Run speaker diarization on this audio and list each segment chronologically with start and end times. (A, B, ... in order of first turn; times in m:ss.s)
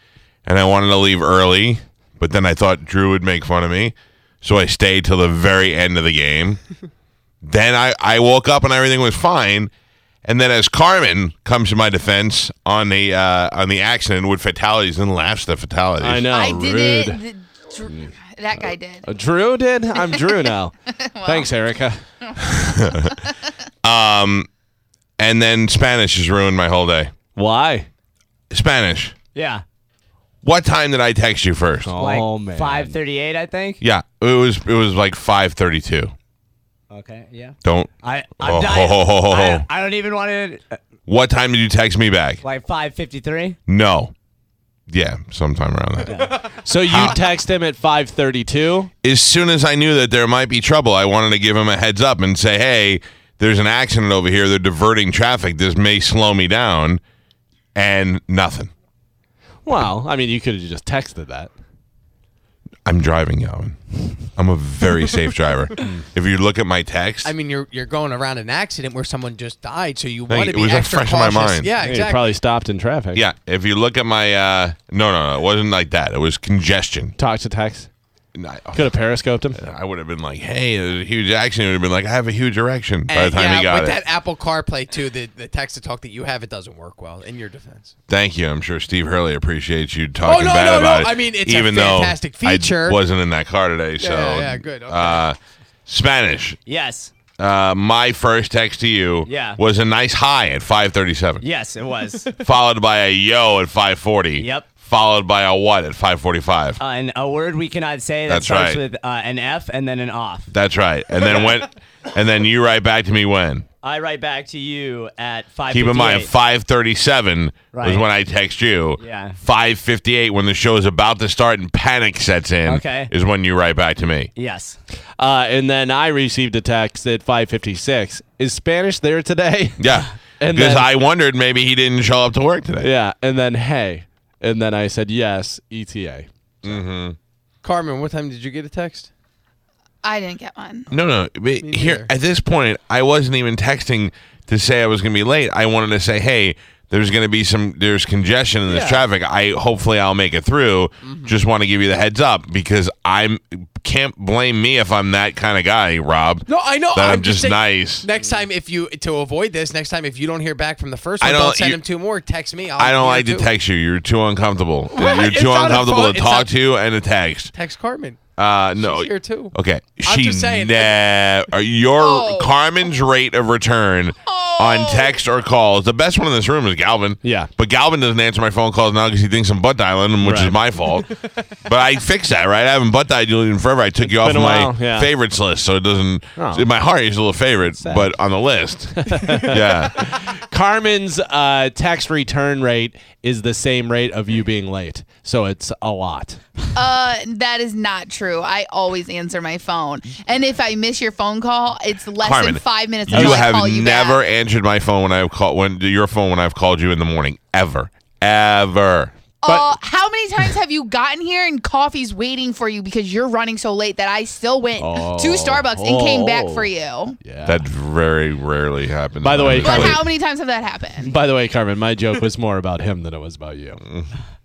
0:00.4-0:06.6 A
0:07.4-0:09.7 A
0:10.2-0:16.3 A
0:16.0-0:17.2 B
0:16.3-0:19.1 C
0:17.9-0:22.0 B
0:20.0-0:21.5 C
0:22.2-0:23.3 C
0:22.6-0:23.2 A
0:23.8-0:24.5 A
0:25.2-0:27.1 A
0:27.3-0:27.9 B
0:28.5-0:29.1 A
0:29.3-0:29.6 D
0:30.4-0:31.9 A
0:31.8-0:32.9 B
0:32.0-0:33.8 D
0:33.8-0:36.1 A
0:36.9-0:40.8 D
0:37.6-0:39.6 A
0:41.1-0:42.4 A
0:42.4-0:43.6 D
0:43.7-0:44.1 A
0:44.9-0:47.2 A
0:46.1-0:46.3 D
0:46.6-0:48.9 B
0:49.0-0:57.0 A
0:57.7-0:58.7 A
0:59.6-1:01.5 B
1:02.8-1:07.3 A
1:07.2-1:12.4 E
1:10.3-1:11.7 A
1:11.8-1:13.2 B
1:13.1-1:17.1 A
1:17.2-1:17.9 B
1:18.3-1:18.9 A
1:18.7-1:19.6 B
1:19.5-1:24.0 A
1:23.1-1:27.9 E
1:28.1-1:36.6 A
1:30.2-1:33.0 E
1:34.0-1:35.2 E
1:36.7-1:37.1 D
1:37.4-1:41.4 A
1:39.2-1:39.6 D
1:41.4-1:42.3 D
1:42.3-1:46.8 A
1:44.4-1:44.7 D
1:46.8-1:50.5 D
1:48.3-1:48.8 A
1:50.5-1:53.6 A
1:51.2-1:51.5 D
1:53.8-1:56.3 D
1:55.7-2:04.3 A
1:57.7-1:58.1 D
1:59.0-1:59.4 D
2:02.6-2:03.1 D
2:04.4-2:04.8 D
2:05.2-2:10.9 B
2:09.8-2:12.9 A
2:12.8-2:16.3 B
2:16.6-2:17.2 A
2:17.6-2:19.1 E
2:20.0-2:20.9 C
2:20.9-2:38.1 A
2:21.6-2:22.1 E
2:31.0-2:31.3 E
2:36.5-2:43.5 E
2:41.2-2:41.8 A
2:42.8-2:47.5 A
2:44.9-2:46.5 E
2:47.5-2:48.2 E
2:48.4-3:01.1 A
2:48.8-2:50.9 E
2:52.0-2:52.5 C
2:54.2-2:55.2 C
2:57.2-2:57.5 B
3:00.2-3:00.6 B
3:01.6-3:10.1 A
3:04.1-3:05.1 B
3:06.4-3:06.6 B
3:09.0-3:16.4 B
3:16.7-3:24.2 C
3:22.2-3:29.1 A
3:23.1-3:23.4 B
3:29.4-3:37.2 C
3:34.8-3:36.7 B
3:37.2-3:37.6 B
3:37.4-3:40.0 A
3:39.2-3:40.0 B
3:39.6-3:41.1 C
3:41.0-3:43.8 B